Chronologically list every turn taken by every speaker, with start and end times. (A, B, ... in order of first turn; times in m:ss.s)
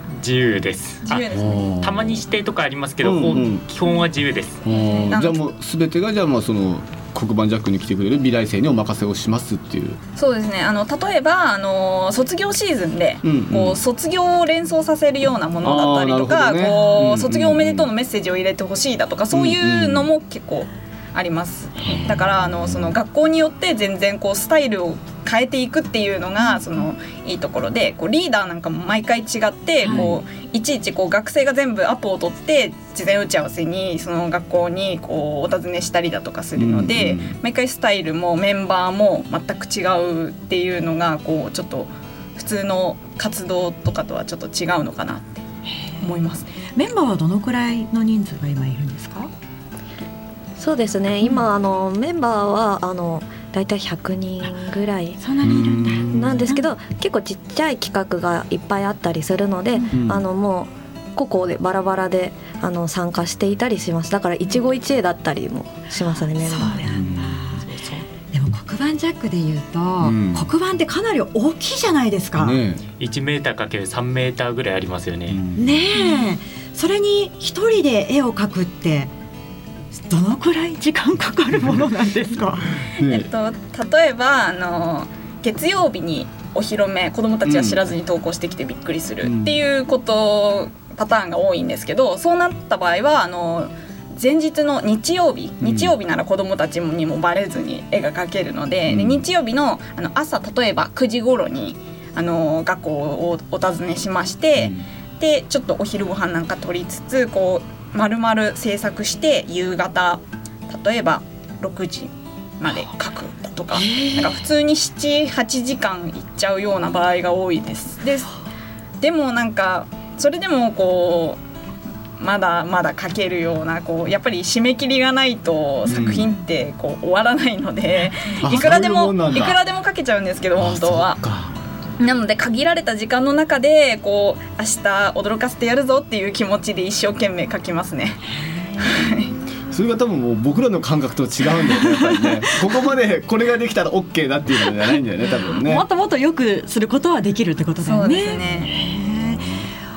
0:00.2-0:04.6 A
0:01.0-0:01.8 B
0:01.3-0:02.2 C
0:03.0-0:03.6 C
0:04.6-0:10.0 C
0:04.7-0:05.1 D
0:05.0-0:05.4 B
0:10.2-0:45.4 B
0:13.2-0:13.8 C
0:15.6-0:17.9 C
0:19.3-0:20.1 C
0:21.8-0:22.9 C
0:29.8-0:30.1 D
0:29.8-0:30.2 C
0:36.6-0:37.4 C
0:45.7-0:49.3 D
0:46.0-0:46.4 B
0:50.6-0:55.2 E
0:54.4-0:56.7 D
0:55.4-0:56.5 C
0:56.1-1:06.9 E
0:59.9-1:00.2 C
1:05.9-1:07.7 D
1:06.8-1:07.5 C
1:07.6-1:08.0 A
1:08.3-1:12.6 D
1:10.0-1:10.5 C
1:12.4-1:12.8 C
1:13.0-1:15.4 A
1:15.3-1:15.8 C
1:15.6-1:19.1 D
1:20.0-1:22.8 D
1:21.6-1:21.8 C
1:23.0-1:23.3 C
1:23.0-1:58.3 B
1:27.4-1:27.8 C
1:29.2-1:29.6 C
1:35.6-1:35.9 C
1:38.9-1:39.3 C
1:44.6-1:44.9 C
1:53.7-1:54.4 D
1:59.0-2:01.4 B
2:02.2-2:11.2 B
2:05.9-2:06.3 C
2:05.9-2:06.4 D
2:08.0-2:08.4 D
2:08.4-2:09.6 C
2:10.6-2:11.5 C
2:12.0-2:18.2 B
2:18.3-2:18.9 D
2:18.8-2:19.4 B
2:19.7-2:25.8 C
2:21.7-2:22.6 D
2:25.5-2:29.6 D
2:27.8-2:28.8 B
2:28.7-2:29.7 C